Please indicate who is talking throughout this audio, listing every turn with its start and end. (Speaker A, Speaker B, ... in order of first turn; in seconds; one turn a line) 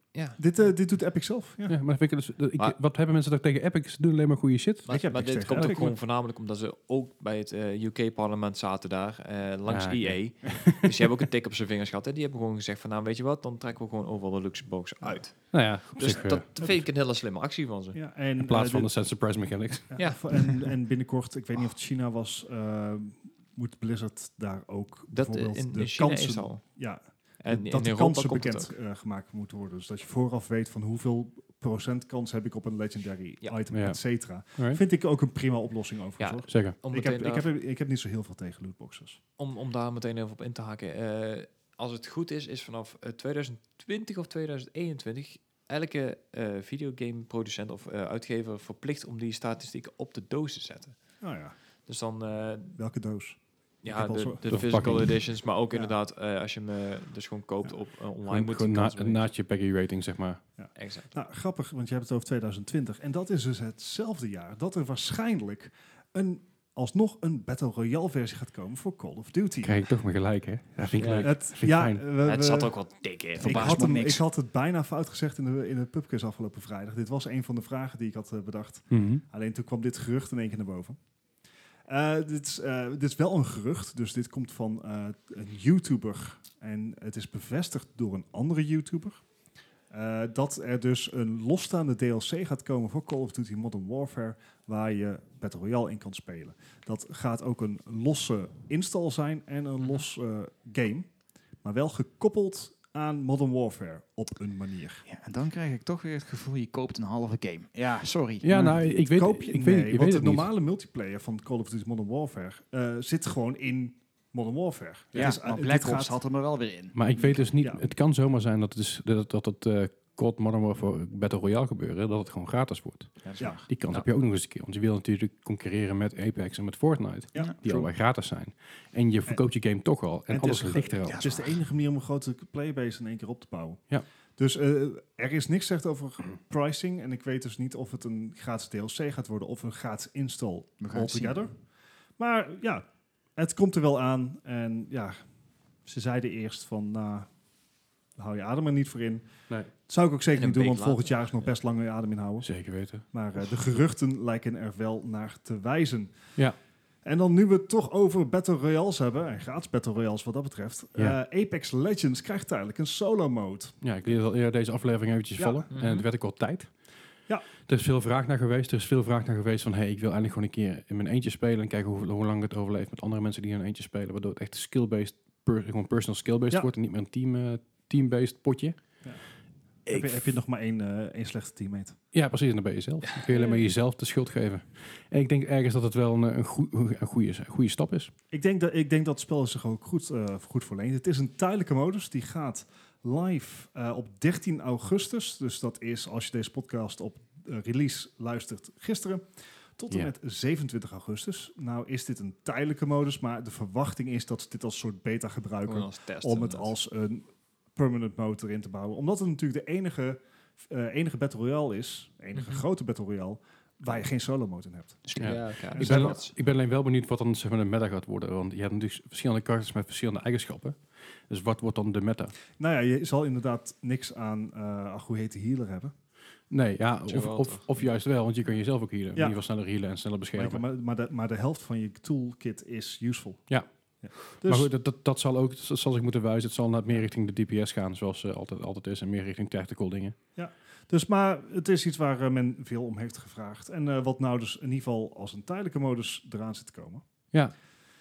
Speaker A: 0.1-0.7
Speaker B: 0.4-1.8
Speaker C: 1.7-4.9
Speaker A: 4.8-18.1
Speaker B: 4.9-5.9
Speaker C: 5.5-5.8
Speaker C: 9.7-10.9
Speaker C: 15.5-16.4
Speaker B: 16.6-16.9
Speaker B: 17.9-18.9
Speaker C: 18.4-19.9
Speaker B: 19.9-39.2
Speaker A: 20.0-20.5
Speaker A: 25.1-26.8
Speaker A: 27.4-28.7
Speaker C: 33.7-34.8
Speaker A: 36.2-37.5
Speaker C: 36.5-36.7
Speaker A: 39.4-51.2
Speaker B: 51.2-51.5
Speaker A: 51.9-52.8
Speaker B: 52.8-54.9
Speaker A: 53.8-59.3
Speaker C: 54.5-55.2
Speaker C: 58.3-60.4
Speaker B: 60.6-69.8
Speaker A: 60.7-61.1
Speaker C: 69.6-72.0
Speaker B: 70.9-72.8
Speaker A: 71.0-71.3
Speaker A: 72.2-74.1
Speaker B: 73.3-81.0
Speaker D: 73.4-74.2
Speaker C: 78.9-79.2
Speaker B: 81.9-89.2
Speaker B: 89.9-101.1
Speaker B: 101.6-105.0
Speaker D: 105.1-108.7
Speaker C: 108.4-110.5
Speaker B: 108.5-116.2
Speaker D: 115.1-117.5
Speaker C: 116.9-131.2
Speaker B: 117.6-117.8
Speaker A: 123.2-124.0
Speaker B: 123.4-123.6
Speaker B: 127.3-127.8
Speaker B: 130.3-141.6
Speaker D: 131.0-131.6
Speaker D: 140.8-141.4
Speaker B: 142.2-145.2
Speaker B: 145.8-147.3
Speaker B: 148.1-156.4
Speaker A: 150.3-151.5
Speaker C: 152.4-153.0
Speaker B: 157.0-163.8
Speaker C: 163.8-166.8
Speaker B: 165.4-165.7
Speaker A: 165.7-166.1
Speaker C: 167.7-178.8
Speaker B: 179.8-182.0
Speaker C: 179.9-180.2
Speaker C: 182.1-188.1
Speaker B: 188.3-199.2
Speaker B: 199.8-216.2
Speaker A: 205.7-206.7
Speaker A: 212.3-212.6
Speaker D: 215.1-215.5
Speaker A: 215.2-216.3
Speaker C: 215.2-222.3
Speaker B: 222.6-225.9
Speaker C: 226.5-230.6
Speaker A: 227.1-227.7
Speaker B: 229.1-229.4
Speaker B: 230.3-234.7
Speaker C: 234.2-240.2
Speaker B: 240.3-247.0